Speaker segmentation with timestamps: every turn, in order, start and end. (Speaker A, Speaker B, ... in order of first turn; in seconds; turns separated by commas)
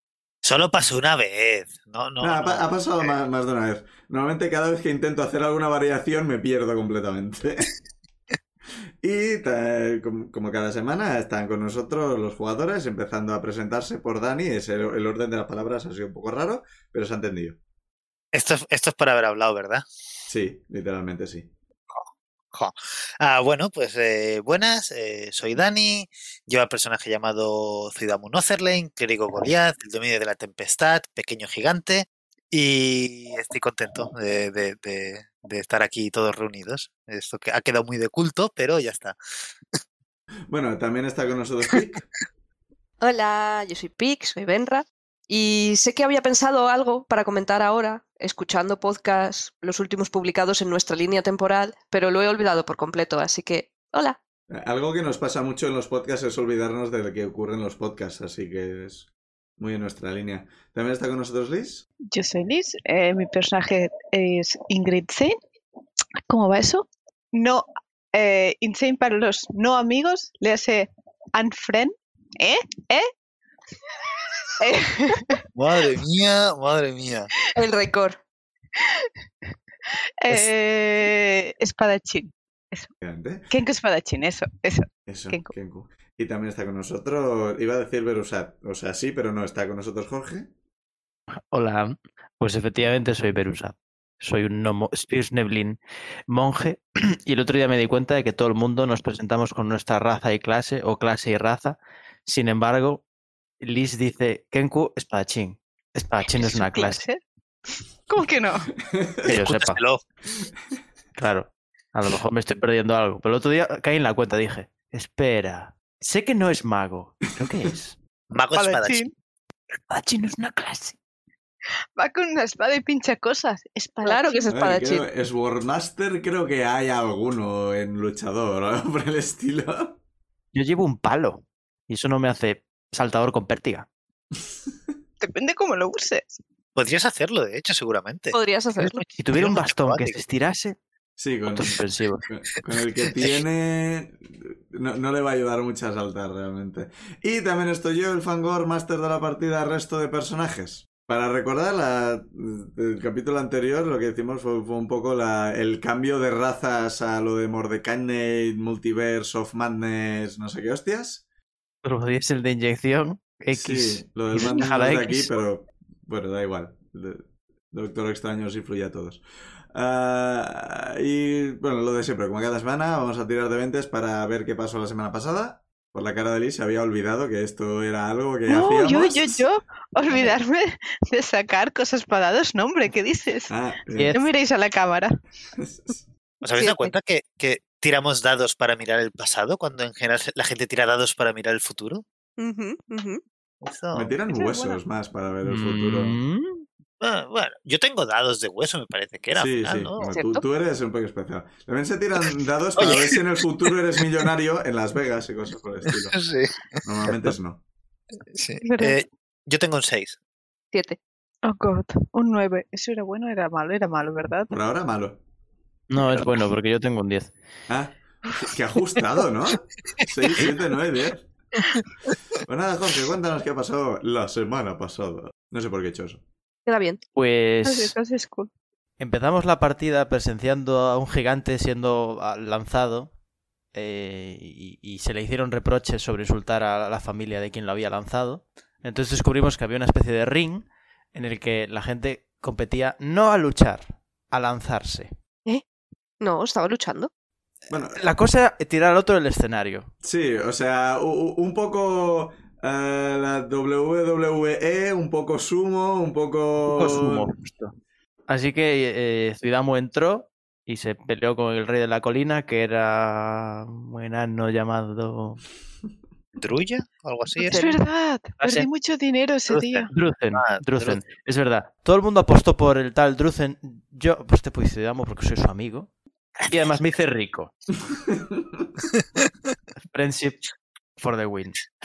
Speaker A: 0.4-3.1, Speaker B: 2.2-7.7, Speaker B: 9.0-17.6, Speaker A: 18.3-19.9, Speaker B: 20.3-21.5, Speaker A: 21.9-39.2, Speaker B: 40.5-42.0, Speaker C: 43.0-54.2, Speaker B: 54.5-61.9, Speaker D: 62.1-65.4, Speaker D: 66.3-73.1, Speaker D: 74.6-75.4, Speaker A: 75.5-77.3, Speaker C: 77.5-78.2, Speaker D: 78.8-79.1, Speaker D: 80.2-82.9, Speaker B: 83.0-83.5, Speaker D: 83.5-85.5, Speaker B: 85.1-90.5, Speaker E: 91.5-95.8, Speaker E: 96.3-103.0, Speaker E: 103.6-107.0, Speaker D: 106.3-107.2, Speaker D: 108.1-108.7, Speaker B: 108.9-109.3, Speaker A: 109.2-110.0, Speaker E: 109.3-109.8, Speaker E: 111.2-118.0, Speaker A: 118.3-119.1, Speaker D: 118.5-119.1, Speaker E: 119.9-121.0, Speaker D: 122.0-124.5, Speaker C: 124.0-125.1, Speaker B: 124.5-130.0, Speaker E: 130.5-133.9, Speaker D: 135.2-136.4, Speaker A: 136.8-140.2, Speaker C: 138.3-139.0, Speaker E: 139.2-140.8, Speaker B: 141.2-141.8, Speaker E: 141.5-142.2, Speaker B: 142.3-161.2, Speaker E: 161.8-165.3, Speaker B: 163.5-169.2, Speaker B: 169.7-179.4, Speaker D: 178.5-183.5, Speaker B: 183.5-184.2, Speaker E: 183.9-184.2, Speaker D: 184.1-185.1, Speaker B: 185.6-186.0, Speaker A: 186.4-192.0, Speaker C: 186.6-186.9, Speaker C: 192.4-193.2, Speaker A: 193.6-194.1, Speaker B: 193.9-196.2, Speaker D: 194.3-194.8, Speaker E: 195.4-196.6, Speaker A: 197.0-200.2, Speaker B: 199.3-206.2, Speaker C: 200.0-200.4, Speaker A: 202.8-203.3, Speaker A: 205.9-207.3, Speaker B: 206.8-207.6, Speaker A: 208.3-210.2, Speaker D: 208.6-209.0, Speaker C: 210.7-211.0, Speaker D: 211.4-214.5, Speaker B: 214.5-215.2, Speaker E: 215.9-217.3, Speaker B: 216.0-216.4, Speaker B: 217.7-221.3, Speaker B: 222.4-226.2, Speaker C: 226.7-227.0, Speaker E: 227.2-227.9, Speaker D: 227.7-228.5, Speaker E: 229.0-233.1, Speaker E: 233.7-245.1, Speaker C: 246.2-247.1, Speaker B: 247.7-248.0, Speaker E: 247.9-249.9, Speaker B: 250.0-257.3, Speaker E: 256.7-257.8, Speaker E: 258.3-265.4, Speaker A: 266.4-267.5, Speaker D: 267.4-269.9, Speaker E: 267.5-267.8, Speaker E: 268.4-268.7, Speaker A: 269.5-271.0, Speaker E: 269.9-275.9, Speaker A: 276.4-276.6, Speaker E: 276.5-277.5, Speaker B: 277.9-278.7, Speaker A: 278.9-279.2, Speaker E: 279.9-280.4, Speaker E: 281.0-281.6